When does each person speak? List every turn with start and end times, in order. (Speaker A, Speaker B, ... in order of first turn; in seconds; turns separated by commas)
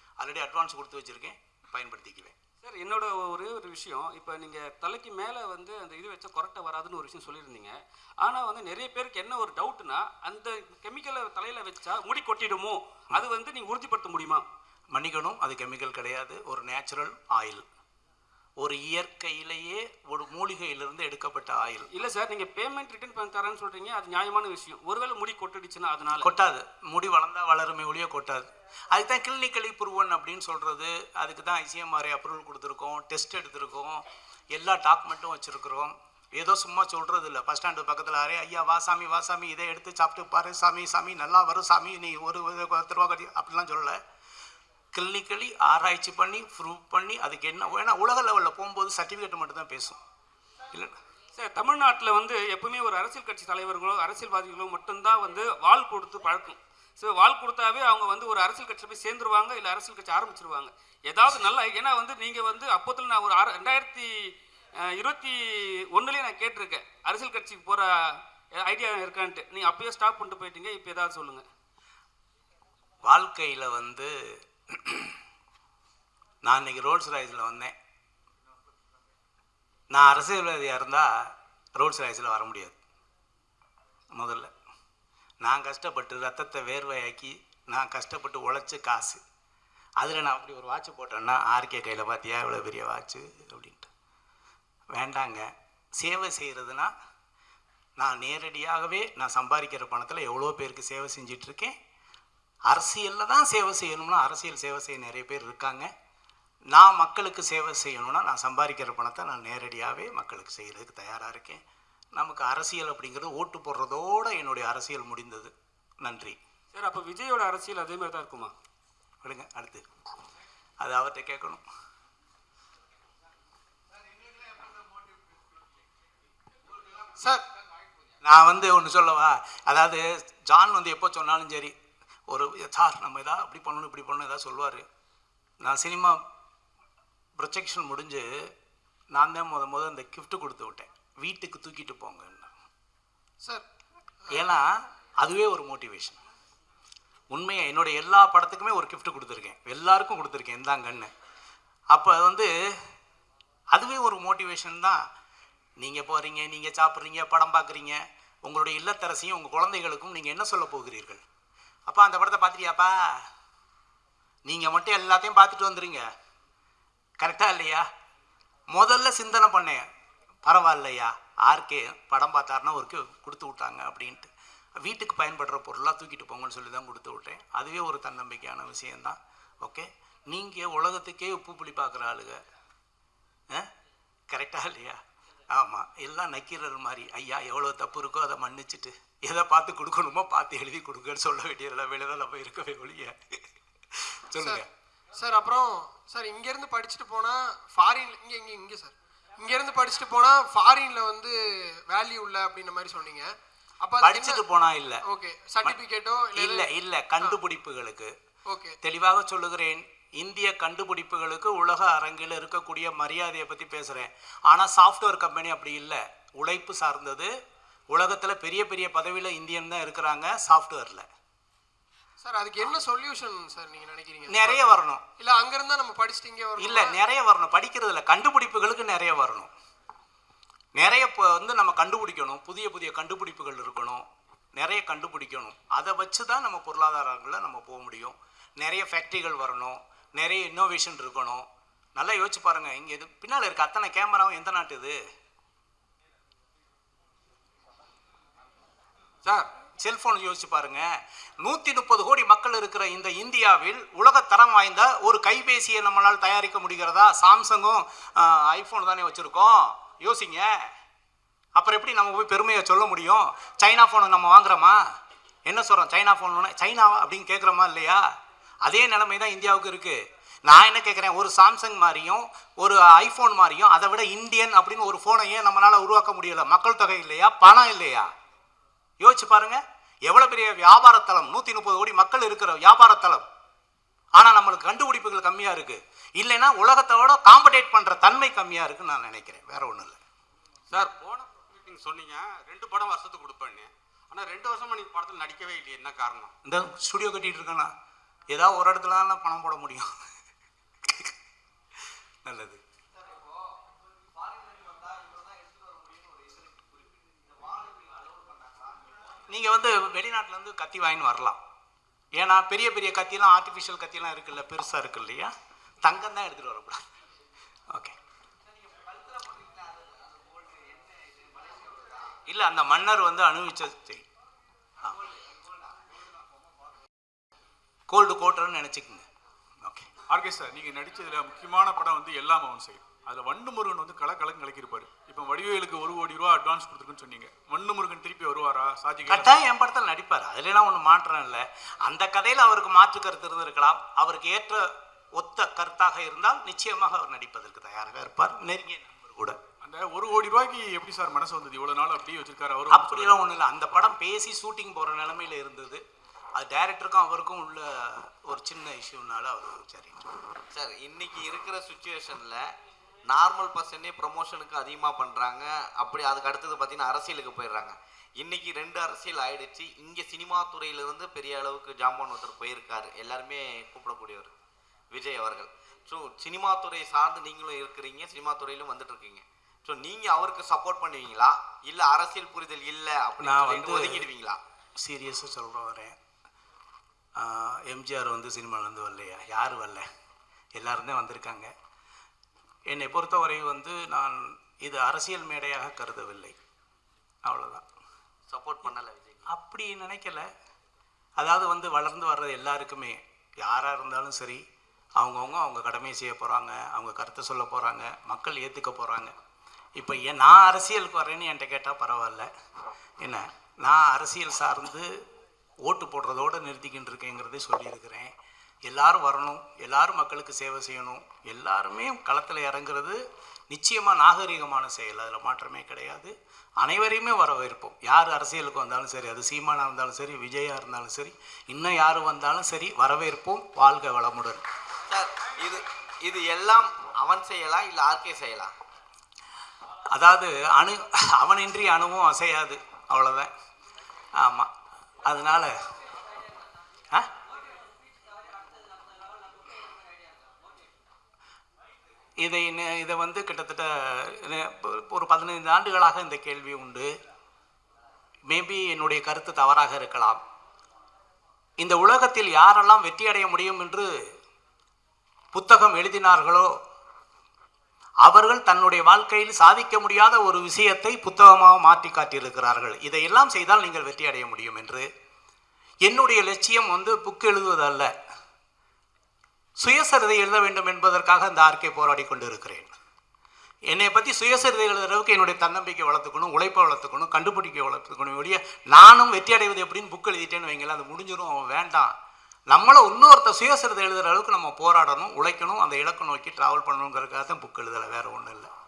Speaker A: 0.2-2.3, Speaker B: 2.6-14.4, Speaker A: 14.9-17.6, Speaker A: 18.6-21.9, Speaker B: 21.9-26.3, Speaker A: 26.2-34.0, Speaker A: 34.5-44.0, Speaker A: 44.9-50.0, Speaker B: 51.4-71.4, Speaker A: 73.0-75.1, Speaker A: 76.4-77.7, Speaker A: 79.9-81.1, Speaker A: 81.8-82.8, Speaker A: 84.1-84.5, Speaker A: 85.4-89.2, Speaker A: 90.0-93.9, Speaker A: 94.9-96.9, Speaker A: 98.0-101.8, Speaker A: 102.7-105.9, Speaker A: 106.7-111.6, Speaker A: 112.2-116.4, Speaker B: 116.7-118.5, Speaker A: 119.2-119.8, Speaker A: 120.8-121.6, Speaker C: 126.8-127.1, Speaker A: 128.2-131.7, Speaker A: 132.3-134.8, Speaker A: 135.6-136.2, Speaker A: 137.4-138.5, Speaker A: 139.1-142.5, Speaker A: 144.3-146.2, Speaker A: 147.3-151.1, Speaker A: 151.9-152.5, Speaker A: 153.7-155.0, Speaker A: 155.8-161.2, Speaker A: 161.9-163.3, Speaker A: 164.5-166.1, Speaker A: 167.2-167.8, Speaker A: 168.7-169.8, Speaker A: 170.4-174.3, Speaker A: 174.8-182.4, Speaker A: 184.3-193.4, Speaker A: 193.9-194.7, Speaker D: 195.1-201.3, Speaker D: 201.9-203.3, Speaker D: 203.8-204.4, Speaker A: 204.0-205.0, Speaker D: 205.0-207.3, Speaker A: 206.3-208.1, Speaker D: 208.5-208.8, Speaker A: 208.8-217.3, Speaker A: 217.9-221.1, Speaker D: 222.2-224.6, Speaker A: 224.3-225.0, Speaker D: 225.2-226.9, Speaker A: 226.6-229.5, Speaker A: 230.8-234.0, Speaker A: 234.6-244.9, Speaker C: 249.2-249.5, Speaker A: 249.8-250.8, Speaker A: 251.4-260.6, Speaker A: 261.6-264.8, Speaker A: 265.4-268.0, Speaker A: 268.6-278.1, Speaker A: 279.0-283.2, Speaker A: 284.1-290.0, Speaker C: 290.7-296.3, Speaker A: 296.4-297.7, Speaker A: 298.3-299.9, Speaker A: 300.8-301.1, Speaker A: 302.2-302.6, Speaker E: 303.0-303.4, Speaker E: 304.1-309.0, Speaker A: 309.3-311.4, Speaker A: 312.1-316.8, Speaker E: 318.6-322.1, Speaker A: 322.2-324.0, Speaker A: 327.9-329.0, Speaker A: 329.6-329.9, Speaker F: 330.1-339.4, Speaker A: 339.1-349.4, Speaker F: 349.6-353.2, Speaker A: 352.7-355.8, Speaker A: 356.4-360.1, Speaker E: 360.5-362.5, Speaker E: 363.1-374.3, Speaker E: 374.9-384.4, Speaker A: 383.2-384.1, Speaker A: 384.8-385.9, Speaker A: 387.2-389.9, Speaker A: 390.6-391.5, Speaker A: 392.7-396.4, Speaker A: 397.2-397.6, Speaker E: 398.3-399.3, Speaker A: 399.3-400.3, Speaker A: 401.2-404.4, Speaker A: 405.0-409.1, Speaker A: 409.8-412.3, Speaker A: 413.0-414.9, Speaker A: 415.6-418.1, Speaker A: 418.6-434.4, Speaker E: 434.9-438.5, Speaker A: 439.9-443.3, Speaker A: 444.2-444.5, Speaker A: 445.0-445.7, Speaker E: 448.3-450.4, Speaker A: 452.2-456.9, Speaker A: 458.3-460.2, Speaker A: 461.6-463.9, Speaker A: 465.3-466.5, Speaker A: 468.0-474.9, Speaker A: 475.8-477.9, Speaker A: 479.6-482.7, Speaker A: 483.7-491.9, Speaker A: 492.5-498.5